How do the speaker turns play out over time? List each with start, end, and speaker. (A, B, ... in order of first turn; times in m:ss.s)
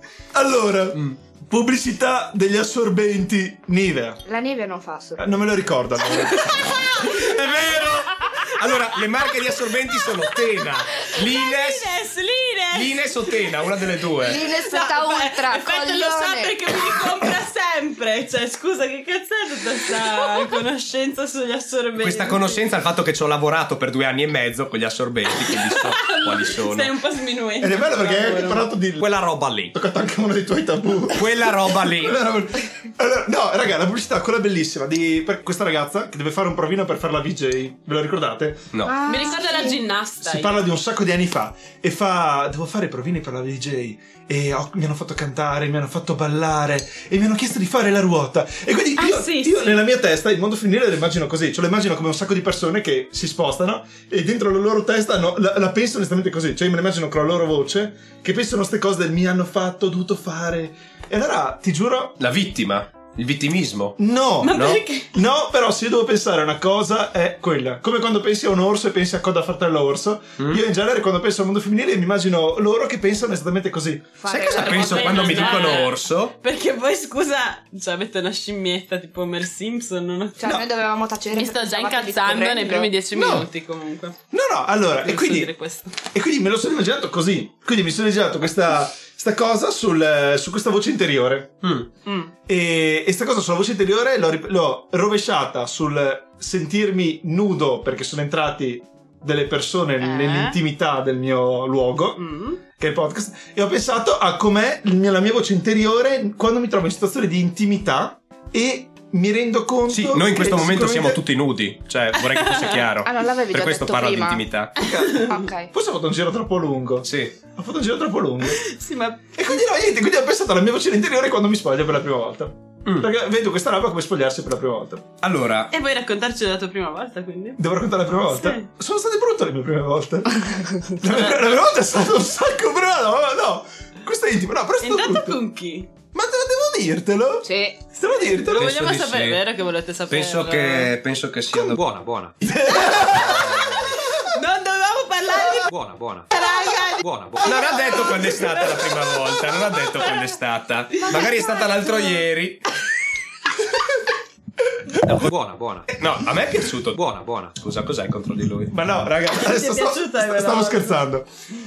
0:00.3-0:04.2 A
0:04.2-0:05.3 B
0:05.2-0:06.8 A
0:06.8-0:11.9 C
0:09.5-0:22.6 D
0:12.7-0:14.4 C
0:14.2-0:16.9 B
0:22.0-0:26.9 C
0:25.2-0:28.7 D
0:27.6-0:29.0 A
0:29.0-0:29.7 C
0:29.7-0:38.7 A
0:31.1-0:32.2 C
0:38.7-0:39.0 C
0:38.8-0:39.8 B
0:39.0-0:40.7 D
0:40.2-1:02.2 A
0:49.0-0:49.8 D
1:02.2-1:04.8 C
1:04.0-1:14.1 A
1:04.4-1:05.1 D
1:14.2-1:15.8 B
1:14.3-1:16.3 C
1:14.4-1:20.6 D
1:20.4-1:22.9 B
1:21.3-1:24.2 D
1:23.1-1:23.5 A
1:24.3-1:25.5 A
1:25.0-1:25.9 D
1:26.0-1:31.6 A
1:31.6-1:31.9 C
1:32.0-1:32.3 D
1:32.5-1:51.2 A
1:40.0-1:40.6 D
1:42.2-1:42.6 D
1:49.9-1:54.7 C
1:52.1-1:52.8 D
1:53.0-1:54.4 B
1:54.8-1:58.7 A
1:55.1-1:55.7 B
1:57.0-1:57.3 C
1:58.4-1:59.3 D
1:59.3-2:05.1 A
2:05.2-2:05.7 C
2:05.7-2:07.6 D
2:07.6-2:15.4 A
2:08.2-2:08.6 D
2:14.8-2:15.9 D
2:16.1-2:18.8 A
2:17.4-2:17.8 B
2:18.0-2:20.9 D
2:18.5-2:19.4 C
2:20.1-2:21.8 C
2:21.5-2:22.4 E
2:22.4-2:23.6 A
2:22.8-2:25.7 D
2:23.2-2:23.8 C
2:25.5-2:26.3 E
2:26.3-2:30.3 D
2:27.0-2:27.8 E
2:27.4-2:32.6 C
2:31.0-2:32.2 D
2:33.7-2:34.1 A
2:34.9-2:35.2 A
2:35.1-2:35.9 E
2:35.9-2:37.0 C
2:36.9-2:37.5 E
2:37.6-2:38.7 C
2:38.7-2:41.3 A
2:39.3-2:41.0 D